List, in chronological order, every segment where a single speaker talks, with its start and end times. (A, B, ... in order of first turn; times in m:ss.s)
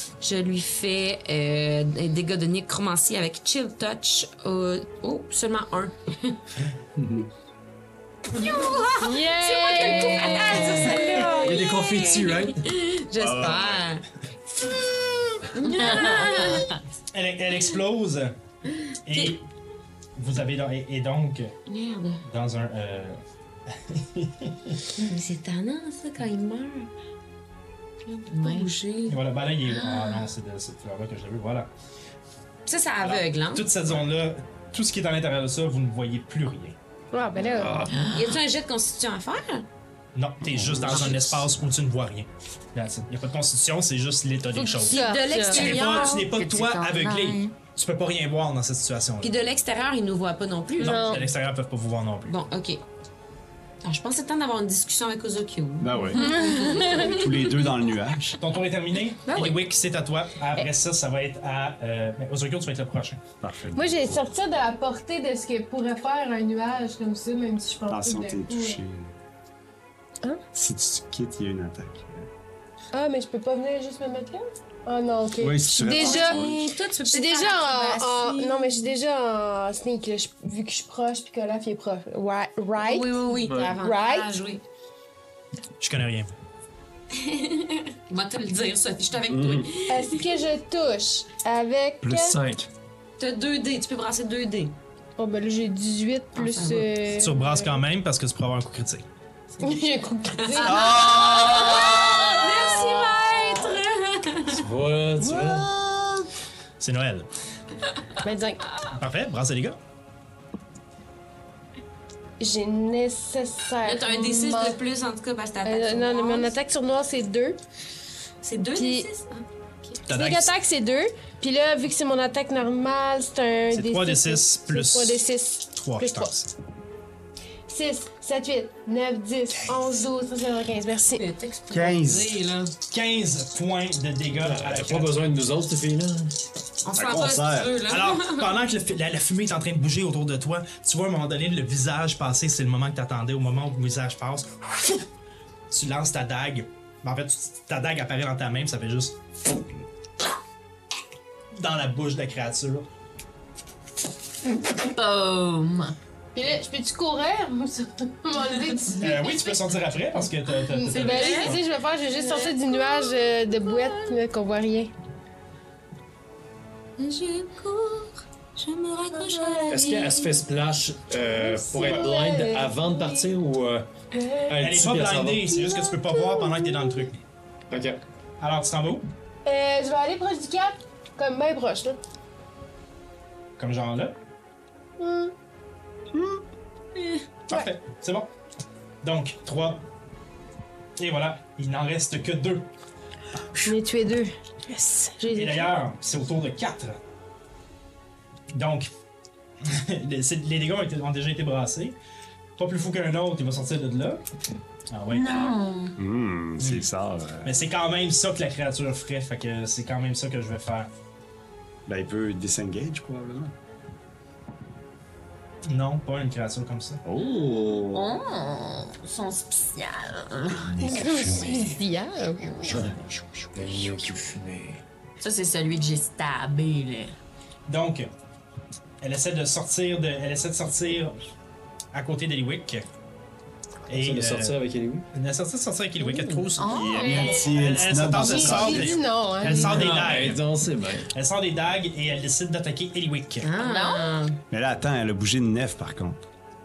0:00.2-0:06.4 A
0:07.0-0:07.3 B
0:08.3-0:14.0 A
0:08.6-0:08.9 C
0:09.0-0:11.5 D
0:09.6-0:11.4 C
0:11.2-0:12.7 B
0:13.1-0:13.9 E
0:15.5-0:16.7 A
0:15.7-0:16.8 C
0:17.1-0:18.4 F
0:19.0-0:19.5 F
0:20.2-0:21.5 F
0:21.7-0:22.2 A
0:22.2-0:24.8 F
0:24.9-0:26.9 A
0:28.0-0:30.1 A
0:28.3-0:28.7 C
0:29.1-0:31.7 F
0:32.6-0:33.6 A
0:33.0-0:36.8 F
0:37.1-0:37.9 D
0:37.4-0:37.9 B
0:37.9-0:38.4 C
0:38.1-0:39.6 A
0:40.1-0:49.4 F
0:40.6-0:41.2 B
0:40.7-0:41.0 E
0:44.6-0:46.2 A
0:44.9-0:45.7 D
0:45.5-0:47.5 C
0:49.2-0:51.3 A
0:50.8-0:52.3 F
0:50.8-0:51.3 D
0:52.3-0:52.8 A
0:53.8-0:57.8 A
0:55.8-0:58.3 E
0:56.2-0:57.2 D
0:58.2-1:03.2 F
0:59.3-0:59.6 A
1:03.4-1:04.3 E
1:03.7-1:08.8 D
1:07.9-1:09.1 E
1:10.5-1:12.3 E
1:12.9-1:16.4 D
1:15.4-1:16.7 E
1:15.8-1:18.9 A
1:17.0-1:23.2 D
1:22.8-1:24.6 A
1:23.4-1:23.8 B
1:23.8-1:24.4 D
1:25.8-1:26.3 F
1:27.1-1:30.2 A
1:29.3-1:29.7 E
1:29.9-1:32.4 D
1:32.0-1:32.7 B
1:33.2-1:34.8 A
1:35.2-1:37.6 D
1:36.4-1:36.9 A
1:37.2-1:39.0 F
1:39.6-1:42.1 D
1:40.4-1:44.6 A
1:40.6-1:43.0 E
1:43.4-1:43.8 D
1:44.5-1:45.7 B
1:45.2-1:46.3 E
1:46.8-1:47.3 F
1:48.2-1:48.7 D
1:48.9-1:49.8 F
1:52.4-1:54.8 D
1:53.8-1:56.5 A
1:55.6-1:57.6 D
1:58.4-2:00.0 A
1:58.7-1:59.1 D
2:00.1-2:00.5 F
2:00.1-2:06.3 D
2:03.7-2:06.5 F
2:07.7-2:11.2 D
2:11.1-2:12.7 A
2:11.7-2:12.4 E
2:12.9-2:15.2 F
2:14.3-2:16.3 B
2:16.8-2:18.5 A
2:16.9-2:17.8 E
2:17.9-2:25.0 F
2:25.7-2:29.2 F
2:31.5-2:32.9 F
2:34.5-2:35.9 C
2:36.3-2:39.4 D
2:39.0-2:41.6 F
2:40.7-2:44.9 D
2:40.8-2:41.6 C
2:47.0-2:50.1 A
2:49.1-2:50.3 D
2:49.7-2:53.9 B
2:51.3-2:53.3 D
2:54.1-2:54.6 D
2:54.4-2:55.5 B
2:54.6-2:57.2 F
2:55.5-2:57.0 D
2:57.7-2:58.0 B
2:58.4-2:59.0 F
2:59.4-3:02.0 D
3:03.6-3:04.1 F
3:05.0-3:05.3 D
3:07.5-3:08.3 F
3:09.0-3:09.8 F
3:11.0-3:12.7 F
3:13.6-3:15.7 D
3:15.3-3:17.0 F
3:18.5-3:18.9 F
3:19.6-3:21.9 F
3:22.6-3:24.2 F
3:24.9-3:25.5 F
3:25.1-3:26.0 C
3:26.0-3:27.5 E
3:26.6-3:26.9 F
3:27.4-3:30.9 F
3:31.9-3:33.5 E
3:35.7-3:37.0 F
3:37.0-3:38.2 E
3:37.9-3:41.7 C
3:40.8-3:42.4 D
3:40.8-3:41.7 B
3:42.4-3:42.9 C
3:42.7-3:44.8 B
3:45.2-3:47.1 C
3:47.7-3:48.1 F
3:49.0-3:51.2 F
3:51.9-3:52.8 F
3:53.9-3:55.1 B
3:53.9-3:54.6 F
3:55.1-4:00.5 F
3:56.0-3:56.4 A
3:56.5-3:57.4 C
3:56.7-3:59.0 E
3:56.9-4:00.0 D
3:59.5-4:01.1 B
4:01.1-4:03.5 F
4:03.4-4:04.4 A
4:03.5-4:04.2 C
4:04.5-4:06.2 E